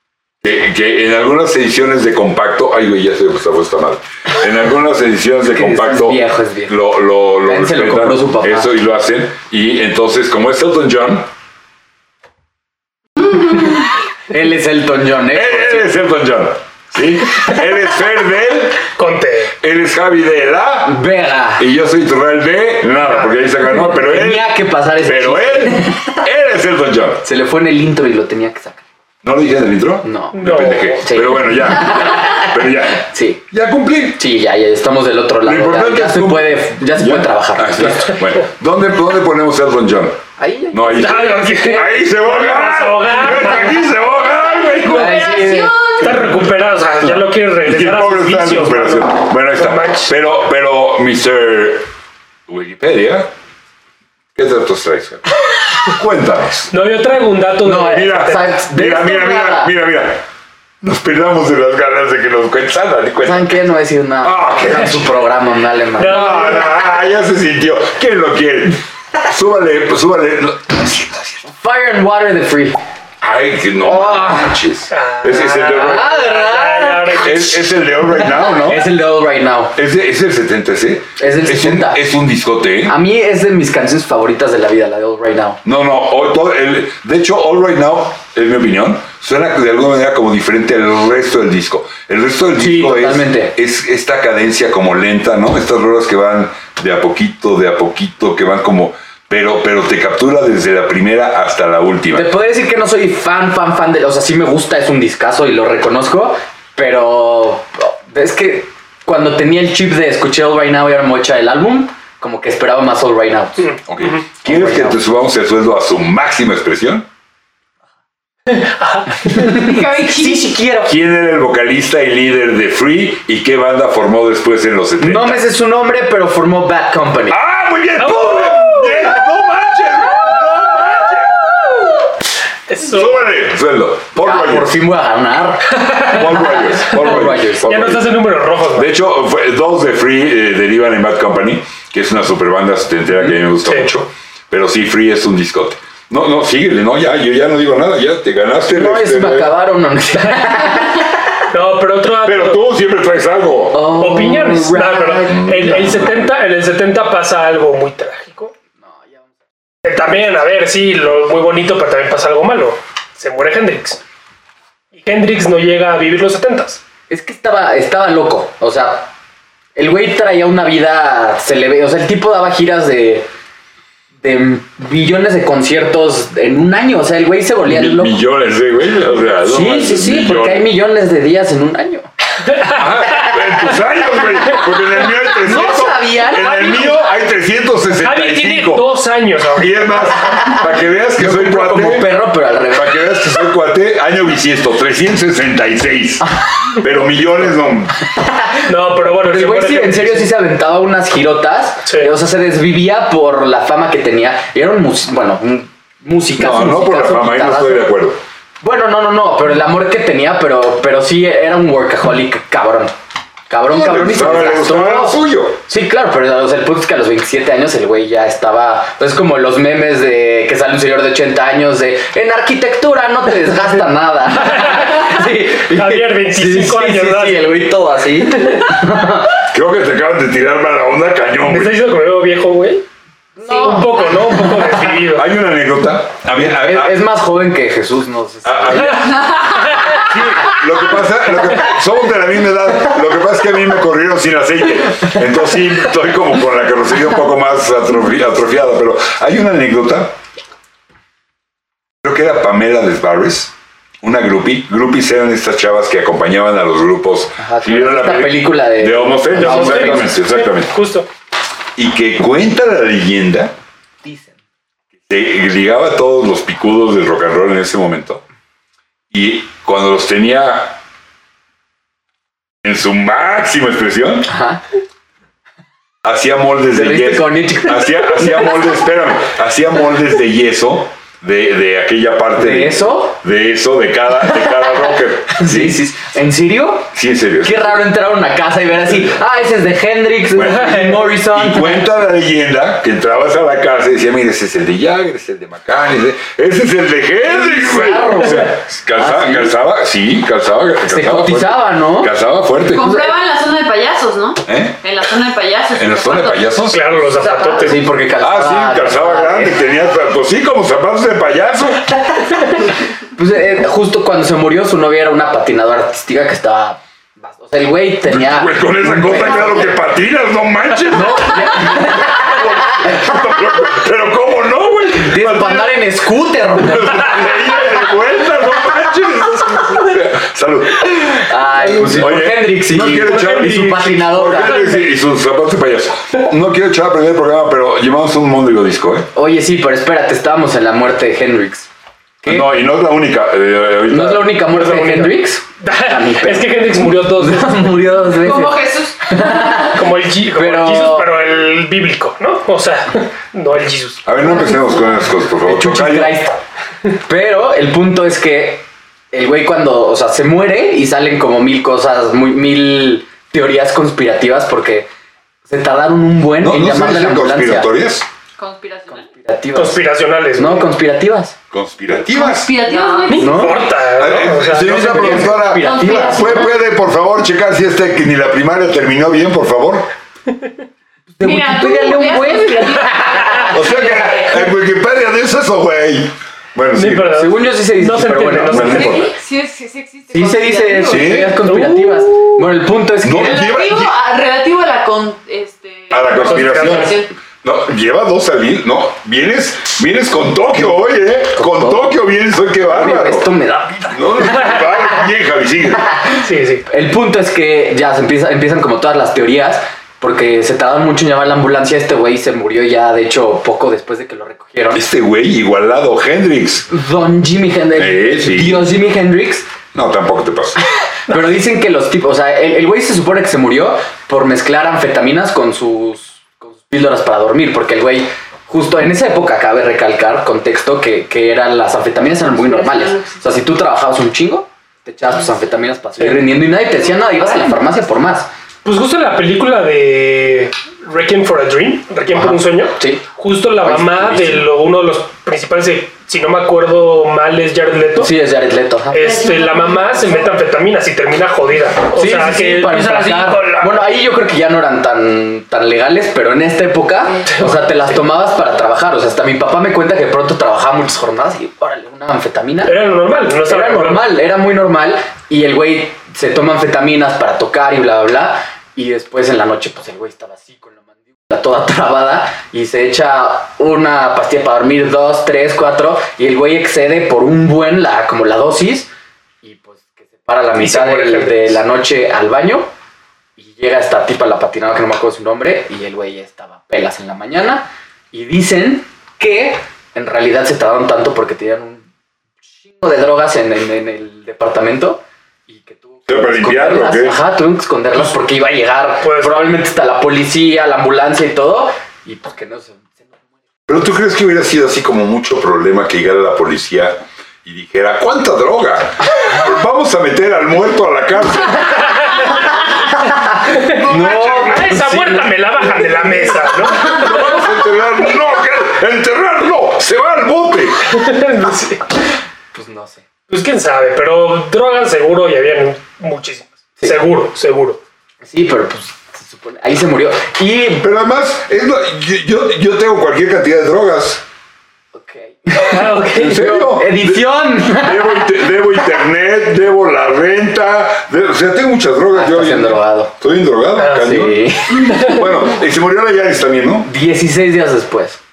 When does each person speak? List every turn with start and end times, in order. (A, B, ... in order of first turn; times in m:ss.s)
0:00.4-0:11.3 A
0:05.4-0:06.8 B
0:07.4-0:08.7 B
0:14.3-0:15.9 B
0:15.3-0:18.9 A
0:19.0-0:19.5 C
0:19.6-0:21.0 A
0:20.8-0:21.6 B
0:21.6-0:27.2 A
0:23.0-0:23.3 C
0:23.9-0:26.2 B
0:27.2-0:28.8 B
0:29.2-0:34.2 A
0:30.0-0:33.4 B
0:30.3-0:31.0 C
0:34.2-0:38.2 B
0:35.4-0:45.2 A
0:40.4-0:41.8 B
0:40.9-0:43.8 C
0:44.8-0:50.1 C
0:44.9-0:45.7 B
0:45.0-0:46.0 D
0:47.0-0:51.9 A
0:52.5-0:53.3 A
0:54.3-0:56.7 A
0:56.7-0:58.5 C
0:57.6-0:59.7 B
0:57.9-1:00.2 A
1:00.8-1:03.6 A
1:03.2-1:06.6 B
1:04.2-1:05.2 A
1:06.0-1:06.9 C
1:06.0-1:11.4 A
1:11.5-1:12.8 B
1:13.2-1:16.2 A
1:13.8-1:14.5 B
1:14.9-1:17.5 C
1:15.8-1:17.3 B
1:17.2-1:18.9 A
1:18.2-1:19.8 B
1:19.7-1:23.0 A
1:21.2-1:22.0 B
1:22.9-1:25.6 B
1:25.6-1:42.3 A
1:32.6-1:33.5 B
1:42.1-1:53.7 B
1:53.6-1:54.2 C
1:53.9-1:57.0 A
1:54.4-1:55.0 B
1:58.5-1:59.4 C
1:59.2-2:00.9 B
1:59.3-2:00.6 D
2:00.8-2:05.4 A
2:05.0-2:07.4 B
2:07.3-2:11.4 A
2:08.0-2:09.0 C
2:12.7-2:13.3 C
2:12.9-2:14.8 A
2:14.2-2:17.9 B
2:15.7-2:16.2 C
2:16.1-2:18.1 A
2:17.0-2:18.9 C
2:18.7-2:29.5 A
2:28.7-2:31.1 B
2:30.2-2:30.5 C
2:31.5-2:32.6 C
2:32.2-2:33.9 A
2:33.7-2:36.1 B
2:33.9-2:38.5 C
2:35.3-2:36.0 A
2:38.8-2:39.3 B
2:39.8-2:44.0 C
2:44.9-2:46.8 C
2:47.1-2:49.1 B
2:49.8-2:53.3 B
2:54.2-2:58.2 B
2:57.6-3:00.7 A
2:59.4-3:02.1 B
3:02.7-3:08.9 A
3:05.4-3:07.0 D
3:05.5-3:06.6 B
3:08.0-3:09.9 C
3:09.6-3:18.0 A
3:11.2-3:13.2 B
3:18.2-3:27.9 B
3:18.6-3:20.3 C
3:21.8-3:22.1 C
3:26.4-3:28.2 A
3:28.6-3:32.9 B
3:33.5-3:49.4 B
3:33.7-3:35.6 A
3:44.4-3:47.6 C
3:49.3-3:51.8 A
3:51.4-3:52.8 C
3:53.4-3:53.9 B
3:53.4-3:54.3 D
3:53.4-3:55.3 C
3:55.0-3:57.0 A
3:56.4-3:59.0 B
3:58.4-4:10.2 A
3:58.7-4:00.0 C
4:12.0-4:20.7 A
4:17.4-4:20.2 B
4:19.3-4:21.1 C
4:21.8-4:23.5 A
4:24.0-4:24.3 B
4:25.1-4:28.2 A
4:29.1-4:30.8 A
4:32.6-4:34.3 A
4:34.3-4:34.6 B
4:36.0-4:45.8 A
4:36.7-4:38.6 B
4:42.4-4:43.2 B
4:45.3-4:46.9 B
4:46.9-4:47.9 A
4:47.4-4:51.9 B
4:50.3-5:03.0 A
4:57.2-4:59.5 B
5:00.8-5:02.1 B
5:02.7-5:06.6 D
5:02.8-5:03.1 B
5:04.4-5:04.8 A
5:05.7-5:06.8 A
5:06.7-5:07.8 C
5:07.2-5:07.7 D
5:07.5-5:09.6 B
5:08.2-5:11.8 A
5:13.1-5:19.7 B
5:18.1-5:25.8 A
5:20.9-5:23.1 B
5:24.9-5:27.4 B
5:26.6-5:39.1 A
5:31.1-5:34.8 B
5:32.8-5:34.8 C
5:39.1-5:41.7 B
5:42.2-5:42.5 B
5:42.2-5:44.4 A
5:43.9-5:49.8 B
5:44.5-5:47.8 C
5:48.1-5:49.6 D
5:49.4-5:54.0 C
5:50.3-5:51.1 B
5:54.0-5:56.2 A
5:55.4-5:56.3 B
5:57.0-6:04.9 B
6:05.5-6:07.7 B
6:06.4-6:08.1 A
6:08.4-6:09.1 D
6:08.9-6:11.4 B
6:09.5-6:10.7 C
6:11.5-6:12.6 A
6:12.0-6:13.7 D
6:12.7-6:15.0 C
6:13.1-6:13.7 B
6:13.9-6:19.9 A
6:14.4-6:16.6 B
6:15.0-6:16.6 D
6:21.2-6:23.7 B
6:21.2-6:24.5 D
6:23.5-6:27.3 A
6:26.7-6:29.0 C
6:27.1-6:29.1 B
6:28.4-6:29.1 A
6:28.6-6:31.2 D
6:30.1-6:33.4 B
6:30.8-6:31.4 A
6:31.4-6:32.3 C
6:33.0-6:33.9 A
6:33.1-6:37.1 D
6:35.9-6:43.3 A
6:36.2-6:37.0 C
6:41.3-6:42.0 B
6:42.6-6:44.6 B
6:43.9-6:45.9 A
6:46.2-6:54.9 B
6:46.2-6:46.6 C
6:54.7-6:56.7 A
6:56.7-6:59.5 B
6:57.8-6:58.7 A
6:59.7-7:00.6 A
7:01.1-7:18.3 B
7:12.3-7:13.2 D
7:16.0-7:16.3 C
7:18.6-7:28.1 C
7:22.1-7:23.0 B
7:23.6-7:24.5 B
7:28.0-7:29.2 B
7:28.9-7:33.8 C
7:29.0-7:30.4 D
7:31.9-7:42.8 B
7:37.3-7:37.7 C
7:42.6-7:44.1 C
7:43.4-7:58.9 B
7:59.4-8:02.7 B
8:00.6-8:01.6 C
8:03.4-8:11.9 B
8:12.6-8:23.2 B
8:16.1-8:17.2 A
8:19.0-8:19.5 C
8:23.7-8:31.8 A
8:33.0-8:35.3 B
8:33.6-8:37.3 C
8:33.7-8:34.7 A
8:36.7-8:40.9 A
8:40.9-8:41.8 C
8:42.5-8:43.0 B
8:43.3-8:47.8 C
8:48.2-8:50.8 B
8:50.8-8:54.2 A
8:54.9-8:58.3 B
8:55.5-8:56.4 C
8:56.1-9:06.9 A
9:02.1-9:03.1 B
9:03.8-9:04.2 C
9:03.9-9:05.0 B
9:04.7-9:05.2 C
9:06.8-9:08.2 B